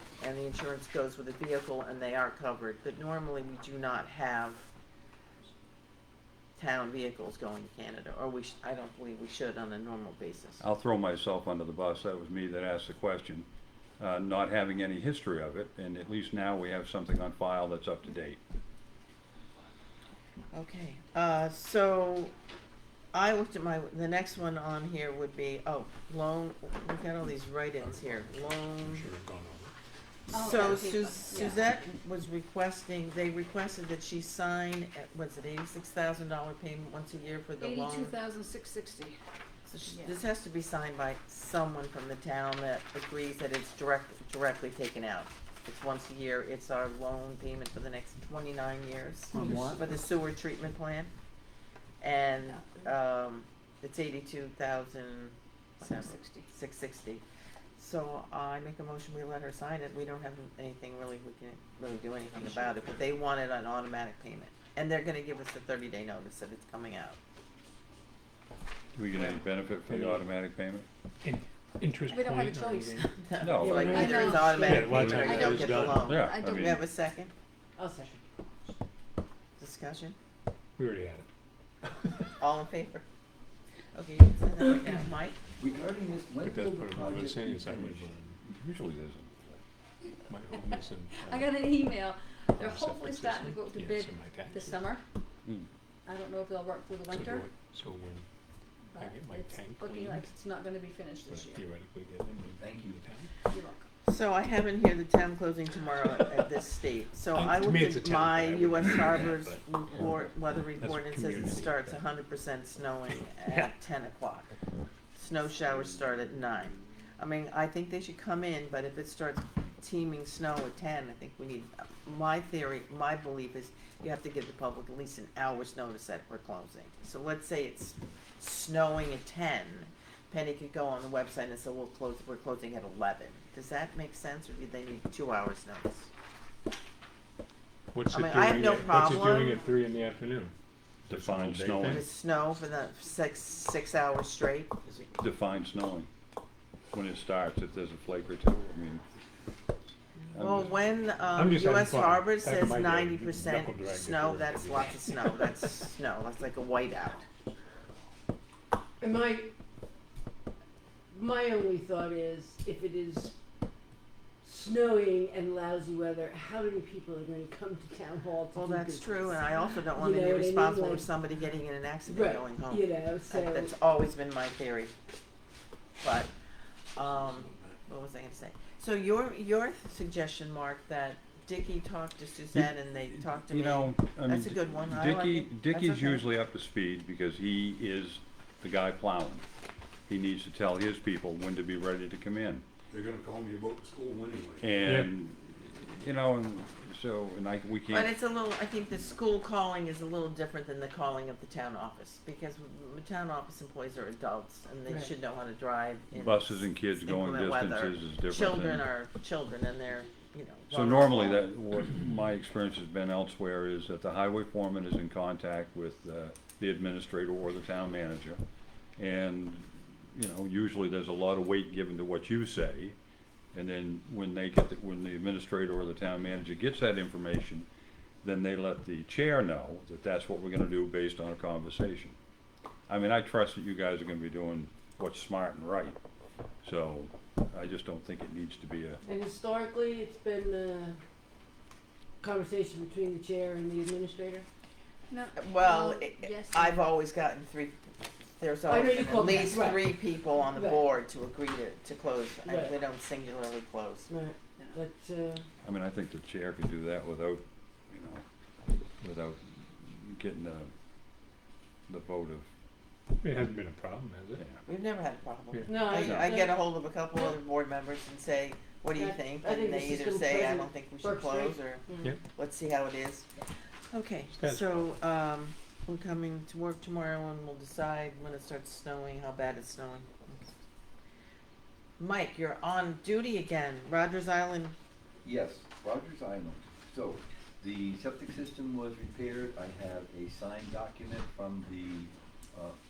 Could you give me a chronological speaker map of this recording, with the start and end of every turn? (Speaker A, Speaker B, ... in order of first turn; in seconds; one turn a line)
Speaker A: 0.2-4.7
Speaker A: 6.6-10.6
Speaker B: 10.6-13.4
Speaker B: 14.0-18.4
Speaker A: 20.5-22.3
Speaker A: 23.1-29.1
Speaker C: 27.8-29.7
Speaker D: 30.3-31.8
Speaker A: 30.3-38.1
Speaker D: 37.6-39.2
Speaker A: 39.7-51.1
Speaker D: 49.4-49.6
Speaker A: 52.0-57.2
Speaker D: 55.8-56.5
Speaker A: 57.8-67.2
Speaker B: 68.9-70.8
Speaker C: 69.9-70.3
Speaker C: 71.2-73.0
Speaker D: 72.1-73.1
Speaker A: 73.3-77.3
Speaker B: 73.4-74.1
Speaker E: 73.5-75.2
Speaker D: 73.8-76.8
Speaker C: 74.7-76.0
Speaker B: 76.0-76.8
Speaker E: 77.8-78.2
Speaker A: 79.6-80.2
Speaker C: 80.8-81.3
Speaker A: 82.3-83.0
Speaker A: 83.9-85.4
Speaker F: 85.6-88.1
Speaker C: 86.4-88.4
Speaker B: 88.4-89.3
Speaker C: 90.2-91.4
Speaker D: 91.2-95.0
Speaker C: 92.6-94.7
Speaker D: 96.0-97.5
Speaker C: 97.1-98.3
Speaker D: 98.9-101.7
Speaker C: 99.0-100.3
Speaker C: 101.2-103.2
Speaker F: 102.5-103.2
Speaker D: 103.5-103.9
Speaker A: 104.1-114.5
Speaker C: 107.3-110.1
Speaker C: 110.8-112.0
Speaker A: 115.1-136.1
Speaker C: 137.9-140.5
Speaker A: 138.1-139.6
Speaker B: 141.1-142.0
Speaker C: 141.1-142.0
Speaker A: 141.8-144.7
Speaker B: 145.2-146.1
Speaker B: 146.9-149.0
Speaker B: 150.3-150.7
Speaker A: 150.3-157.2
Speaker C: 151.3-155.3
Speaker E: 159.0-159.5
Speaker E: 161.1-163.3
Speaker E: 164.4-171.1
Speaker A: 168.5-174.9
Speaker E: 172.1-173.7
Speaker A: 176.0-176.3
Speaker A: 176.9-186.2
Speaker B: 182.5-189.4
Speaker B: 190.1-192.6
Speaker G: 192.9-195.0
Speaker B: 194.6-198.1
Speaker A: 197.9-211.4
Speaker B: 206.1-208.8
Speaker B: 210.7-218.4
Speaker B: 219.0-222.9
Speaker B: 223.5-227.7
Speaker B: 228.2-232.2
Speaker B: 232.9-236.0
Speaker B: 236.6-239.0
Speaker E: 239.1-241.0
Speaker E: 242.2-244.5
Speaker D: 245.1-246.9
Speaker A: 245.3-247.8
Speaker A: 248.4-254.1
Speaker E: 248.7-250.8
Speaker E: 252.4-252.8
Speaker E: 254.1-255.4
Speaker B: 255.6-258.2
Speaker B: 259.0-260.7
Speaker B: 261.9-262.4
Speaker C: 263.2-264.4
Speaker A: 264.6-273.3
Speaker E: 265.7-266.6
Speaker B: 266.0-266.3
Speaker E: 268.9-272.1
Speaker A: 273.9-280.5
Speaker C: 274.4-274.9
Speaker A: 282.0-284.7
Speaker F: 285.2-292.8